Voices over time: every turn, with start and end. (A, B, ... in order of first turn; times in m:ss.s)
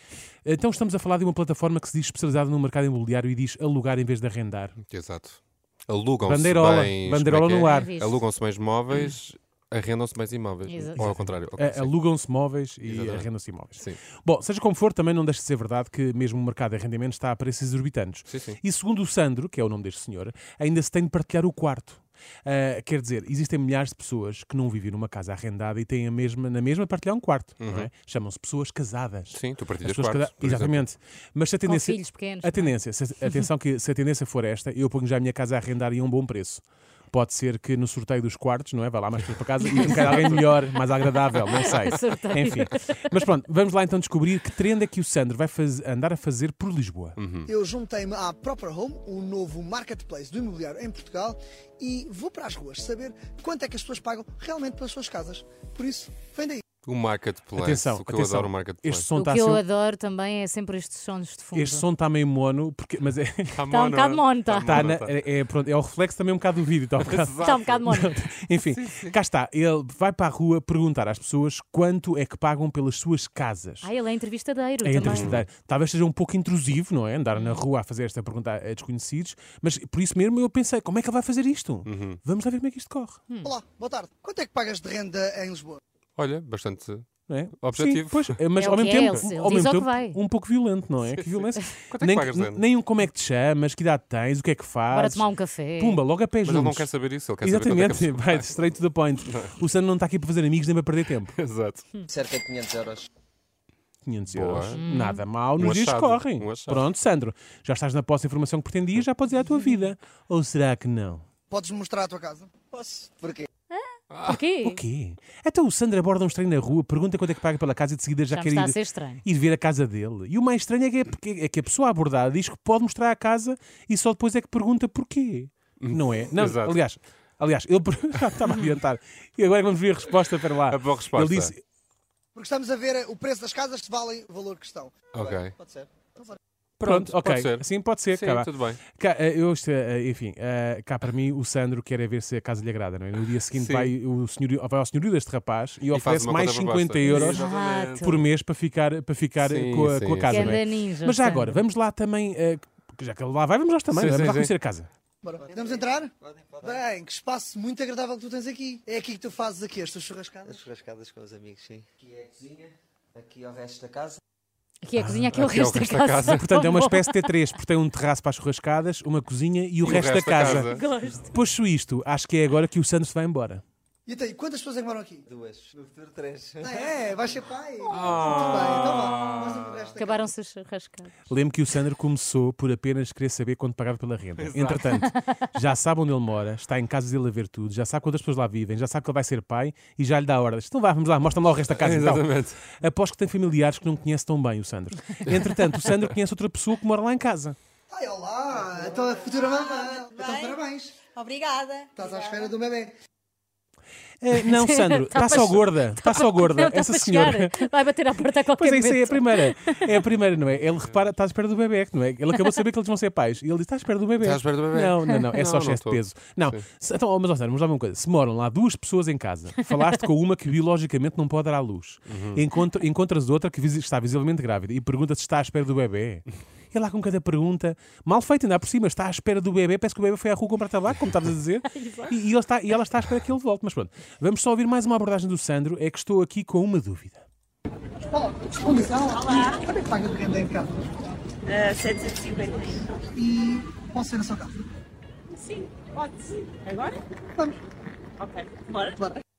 0:00.4-0:04.8 A
0:04.9-0:12.0 B
0:06.2-0:07.9 A
0:07.6-0:08.2 C
0:10.7-0:11.0 C
0:11.0-0:47.2 A
0:12.8-0:14.0 B
0:18.3-0:18.6 B
0:27.6-0:27.9 B
0:29.3-0:30.9 B
0:31.6-0:32.8 C
0:39.6-0:43.2 C
0:47.2-0:47.5 B
0:47.5-0:56.6 D
0:56.8-0:59.1 B
0:57.6-0:59.6 A
0:59.2-1:01.8 C
1:01.5-1:03.6 A
1:03.5-1:05.2 B
1:03.7-1:04.9 C
1:04.6-1:13.9 A
1:07.0-1:09.2 B
1:07.4-1:08.1 C
1:13.8-1:15.4 C
1:14.8-1:23.2 A
1:15.0-1:15.5 B
1:17.4-1:17.6 C
1:21.9-1:22.2 B
1:23.4-1:25.8 D
1:26.2-1:27.1 B
1:27.3-1:36.9 A
1:27.6-1:28.5 B
1:28.6-1:30.2 C
1:31.1-1:32.7 B
1:34.9-1:36.0 C
1:36.4-1:38.5 B
1:37.4-1:41.3 A
1:39.3-1:39.5 B
1:41.3-1:41.8 B
1:42.1-1:43.1 E
1:44.0-1:51.2 A
1:44.3-1:44.8 B
1:44.7-1:45.2 C
1:45.6-1:46.9 B
1:51.5-1:53.5 D
1:52.8-1:53.1 E
1:53.7-1:54.8 C
1:54.1-1:54.4 B
1:54.6-2:11.6 A
1:58.3-1:59.2 C
2:05.8-2:06.8 B
2:08.4-2:08.7 C
2:10.7-2:11.5 B
2:12.4-2:16.4 D
2:15.1-2:15.6 B
2:16.8-2:18.8 B
2:16.8-2:27.4 A
2:23.5-2:24.0 B
2:25.9-2:28.1 B
2:27.1-2:28.2 C
2:27.7-2:28.0 E
2:28.0-2:34.9 A
2:29.4-2:30.5 B
2:30.2-2:31.6 C
2:33.9-2:34.5 B
2:35.2-2:40.6 D
2:35.4-2:36.8 E
2:40.4-2:44.2 E
2:44.8-2:47.3 C
2:45.0-2:45.4 A
2:45.3-2:46.6 B
2:46.2-2:53.6 A
2:49.8-2:50.8 B
2:50.4-2:51.3 C
2:54.1-2:55.2 D
2:55.3-2:57.2 E
2:56.6-3:00.3 D
2:57.9-2:59.9 B
3:00.0-3:01.1 C
3:01.3-3:17.6 A
3:04.4-3:05.1 B
3:11.7-3:12.6 B
3:17.9-3:21.0 D
3:19.6-3:20.6 F
3:21.2-3:22.5 F
3:22.0-3:22.9 D
3:24.2-3:57.2 A
3:24.5-3:30.0 C
3:30.6-3:31.1 B
3:34.2-3:36.6 B
3:42.1-3:42.4 B
3:51.7-3:52.1 C
3:58.0-4:01.2 D
4:03.2-4:04.6 D